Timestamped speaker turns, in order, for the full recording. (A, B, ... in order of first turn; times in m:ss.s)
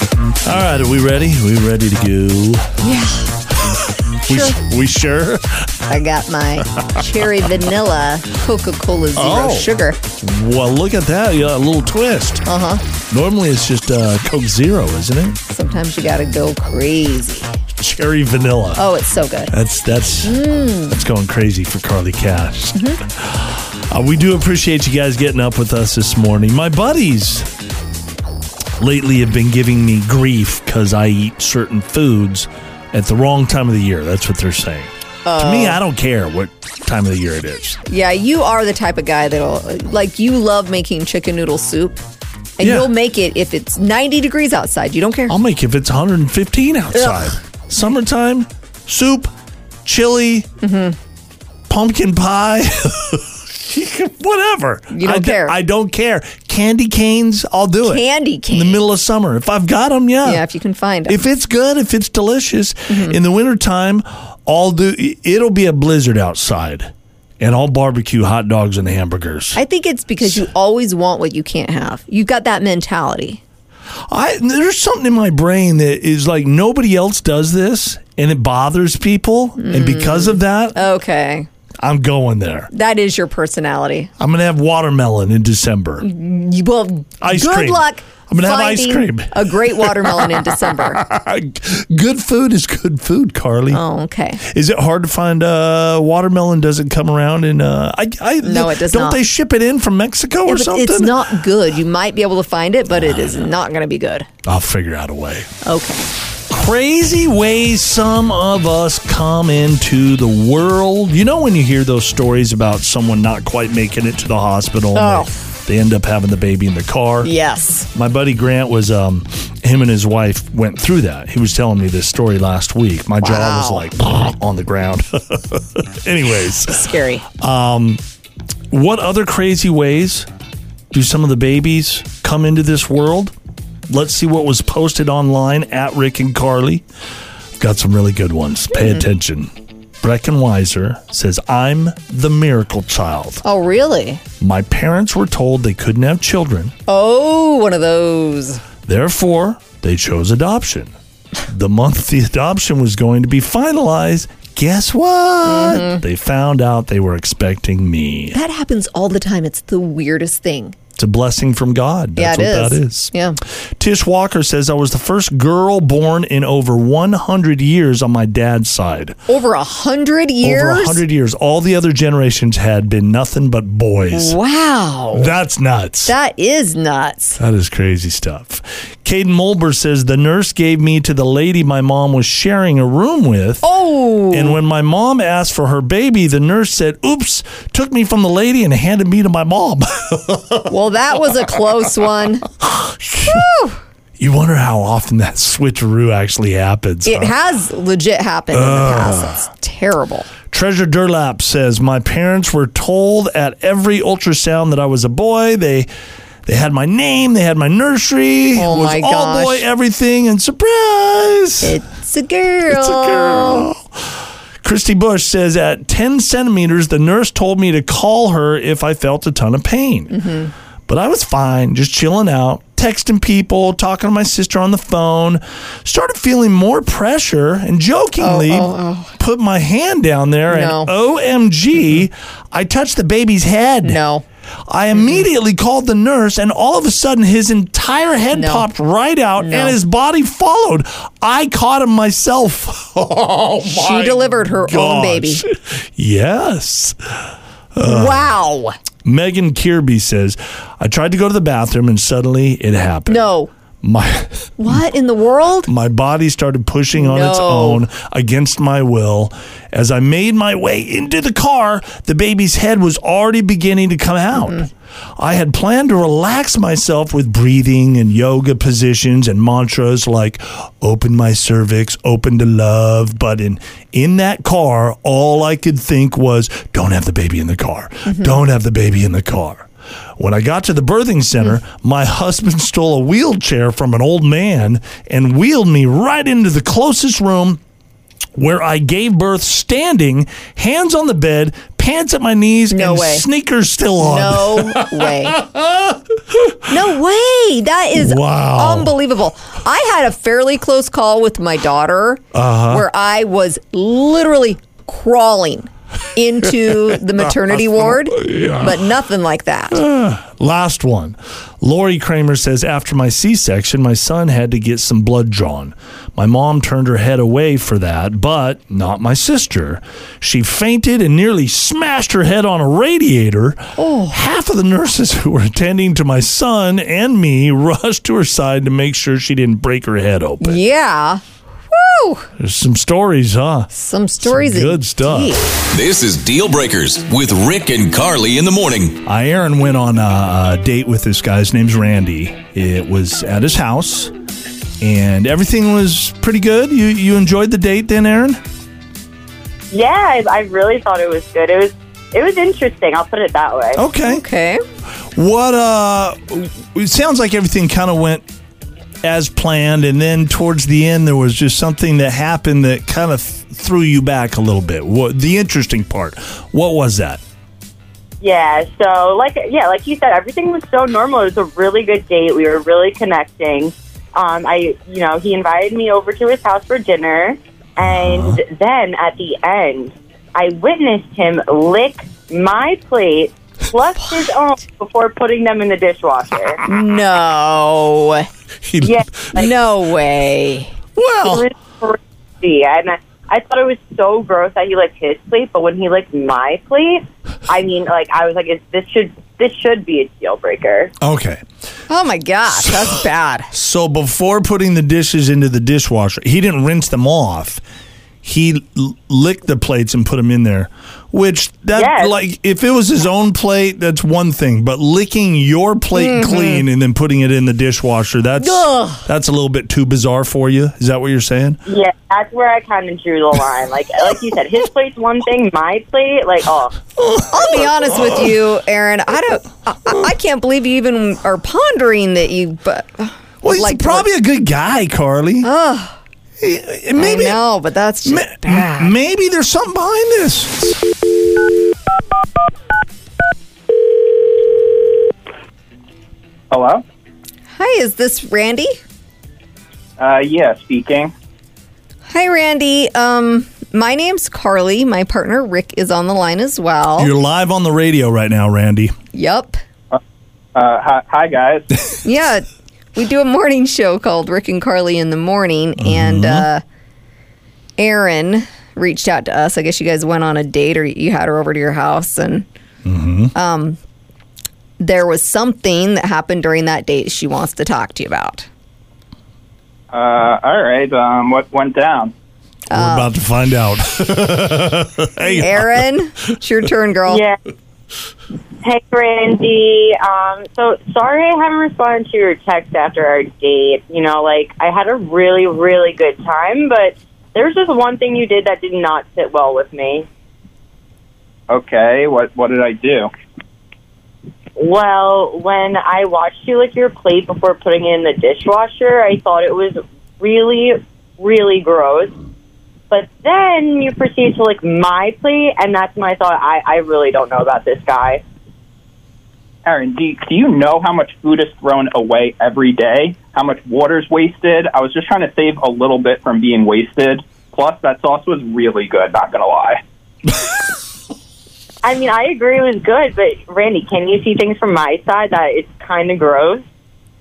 0:00.4-0:02.7 A
0:02.8-0:03.3 B
0:04.3-0:05.7 A
0:04.3-0:04.6 B
0:05.9-0:10.0 B
0:09.2-0:12.4 A
0:12.4-0:12.8 B
0:13.1-0:15.4 A
0:15.5-0:17.6 B
0:17.8-0:18.8 A
0:18.8-0:19.5 B
0:19.5-0:27.5 A
0:20.2-0:21.0 B
0:22.7-0:23.0 B
0:28.8-0:37.8 A
0:35.2-0:35.8 B
0:37.9-0:42.0 B
0:42.6-0:45.4 B
0:42.6-0:42.9 A
0:45.3-0:49.3 A
0:49.8-0:50.5 A
0:50.6-0:51.0 B
0:51.7-1:00.4 A
0:54.9-0:55.6 B
0:57.8-0:58.8 B
1:00.2-1:01.2 B
1:01.1-1:09.6 A
1:02.9-1:03.2 B
1:09.6-1:13.4 B
1:14.1-1:20.8 A
1:19.6-1:21.5 B
1:21.8-1:22.7 A
1:22.7-1:24.1 B
1:24.2-1:26.1 A
1:26.0-1:31.0 B
1:27.2-1:33.8 A
1:33.7-1:34.4 B
1:34.4-1:41.2 A
1:38.4-1:39.2 B
1:40.5-1:44.3 B
1:42.9-1:43.5 A
1:44.4-1:45.5 A
1:45.6-1:46.1 B
1:46.5-1:57.3 A
1:55.0-1:55.3 B
1:57.2-1:57.9 B
1:57.9-2:06.9 A
2:03.2-2:03.9 B
2:06.6-2:07.3 B
2:07.4-2:08.0 A
2:08.7-2:10.3 A
2:10.9-2:13.3 A
2:13.9-2:16.8 A
2:17.6-2:23.4 A
2:18.7-2:19.0 B
2:23.4-2:24.2 B
2:24.4-2:26.7 A
2:26.9-2:28.6 B
2:28.9-2:30.9 A
2:31.5-2:38.4 A
2:35.4-2:36.0 B
2:38.3-2:40.8 B
2:41.0-2:43.1 A
2:42.2-2:43.4 B
2:43.8-2:49.2 A
2:49.3-2:51.0 B
2:50.4-2:54.4 A
2:54.1-2:55.3 B
2:55.2-2:56.1 A
2:56.1-2:57.4 B
2:57.4-3:03.7 A
3:03.6-3:04.6 B
3:04.3-3:10.7 A
3:10.7-3:12.5 B
3:12.6-3:13.5 A
3:13.2-3:13.8 B
3:14.2-3:17.4 A
3:17.0-3:20.3 B
3:18.5-3:19.4 A
3:20.5-3:25.9 A
3:26.5-3:31.8 A
3:28.6-3:29.7 B
3:31.6-3:33.7 B
3:32.7-3:40.1 A
3:40.1-3:40.5 B
3:40.9-3:54.0 A
3:48.2-3:49.2 B
3:50.5-3:50.9 B
3:53.8-3:54.2 B
3:54.7-4:08.3 A
3:54.9-3:55.2 B
3:58.3-3:58.7 B
3:59.4-3:59.8 B
4:03.7-4:05.4 B
4:07.8-4:08.8 B
4:09.0-4:13.3 A
4:13.1-4:13.5 B
4:13.8-4:14.8 A
4:14.6-4:15.7 B
4:15.7-4:47.6 A
4:16.9-4:17.8 B
4:24.4-4:24.7 B
4:38.1-4:38.4 B
4:48.4-4:56.6 A
4:52.7-4:53.2 B
4:54.0-4:55.4 B
4:56.7-5:09.8 B
4:58.0-4:59.0 A
5:02.3-5:02.8 A
5:07.5-5:08.7 A
5:09.7-5:30.6 A
5:23.8-5:24.2 B
5:30.4-5:32.3 B
5:32.4-5:35.4 A
5:33.7-5:35.5 B
5:35.7-5:39.0 C
5:39.0-5:44.1 A
5:44.8-5:48.4 A
5:49.7-5:53.8 D
5:53.8-5:54.2 A
5:54.0-5:54.6 B
5:55.2-5:58.2 A
5:59.0-6:07.2 A
6:08.2-6:26.6 D
6:17.8-6:18.4 A
6:26.7-6:28.3 B
6:28.6-6:29.0 A
6:28.8-6:29.5 D
6:29.3-6:30.7 B
6:31.0-6:31.5 A
6:31.2-6:40.9 D
6:41.0-6:41.4 A
6:41.9-6:43.5 B
6:42.5-6:43.0 A
6:43.5-6:47.6 A
6:48.2-7:01.6 A
6:51.7-6:52.1 D
6:56.0-6:56.6 B
6:58.4-6:59.1 B
7:01.7-7:06.8 D
7:07.0-7:08.3 A
7:07.3-7:14.1 B
7:13.4-7:15.5 A
7:15.4-7:16.0 B
7:16.4-7:17.4 A
7:17.0-7:18.9 B
7:18.0-7:20.8 A
7:26.5-7:26.8 E
7:27.6-7:28.7 B
7:30.0-7:31.1 E
7:32.1-7:37.1 B
7:37.0-7:39.0 A
7:39.1-7:39.6 B
7:40.6-7:41.7 E
7:42.0-7:46.6 B
7:45.8-7:46.5 A
7:47.8-7:52.5 B
7:52.8-7:53.3 A
7:53.4-7:53.8 B
7:54.8-7:58.5 B
7:59.9-8:02.1 E
8:02.7-8:03.1 B
8:02.7-8:05.8 A
8:05.2-8:07.2 B
8:07.1-8:07.4 D
8:08.6-8:20.1 D
8:21.5-8:23.1 E
8:24.6-8:32.1 D
8:32.9-8:38.2 D
8:39.6-8:49.8 E
8:51.8-8:56.6 D